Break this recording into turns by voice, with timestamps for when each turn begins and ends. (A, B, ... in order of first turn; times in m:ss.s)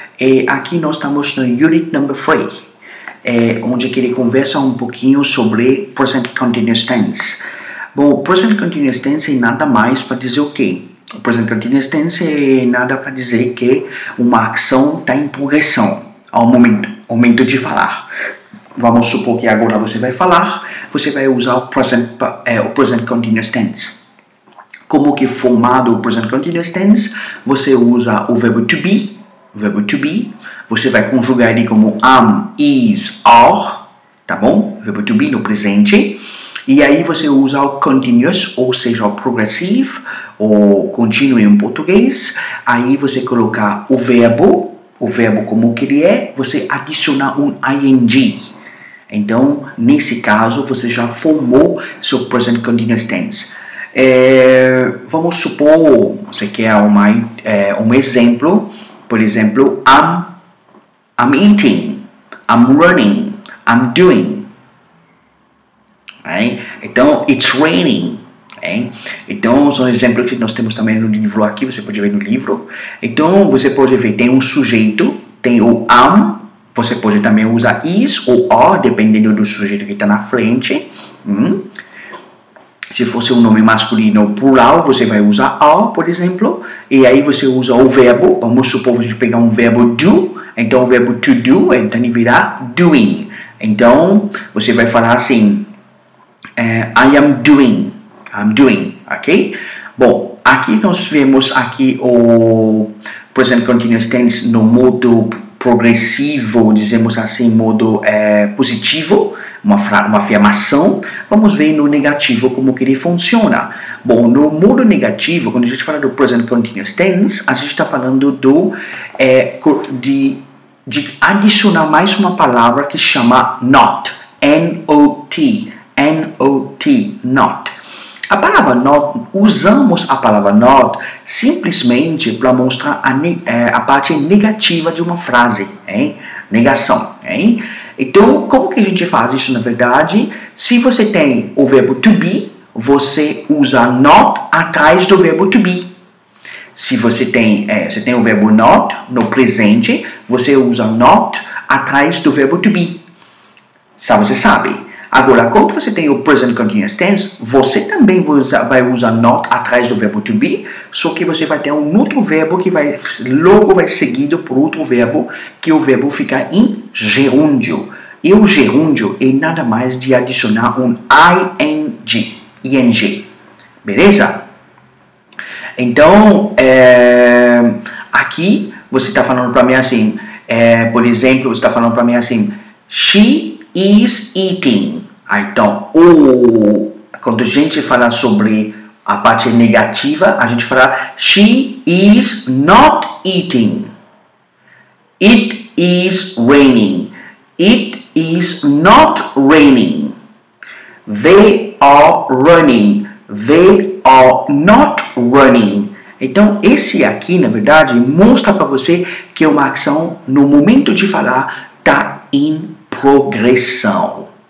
0:00.2-0:02.5 A
0:03.2-0:07.4 A
0:07.9-0:18.0 A
0:18.8-0:24.0 A
0:24.9-0:48.5 A
0:49.1-1:00.3 A
1:01.2-1:04.5 A
1:06.2-1:21.6 A
1:22.9-1:35.7 A
1:36.6-2:07.7 A
2:08.3-2:25.9 A
2:26.7-2:33.0 A
2:34.0-2:53.3 A
2:53.8-2:54.5 A
2:55.8-3:13.9 A
3:15.2-3:20.1 A
3:21.0-3:34.3 A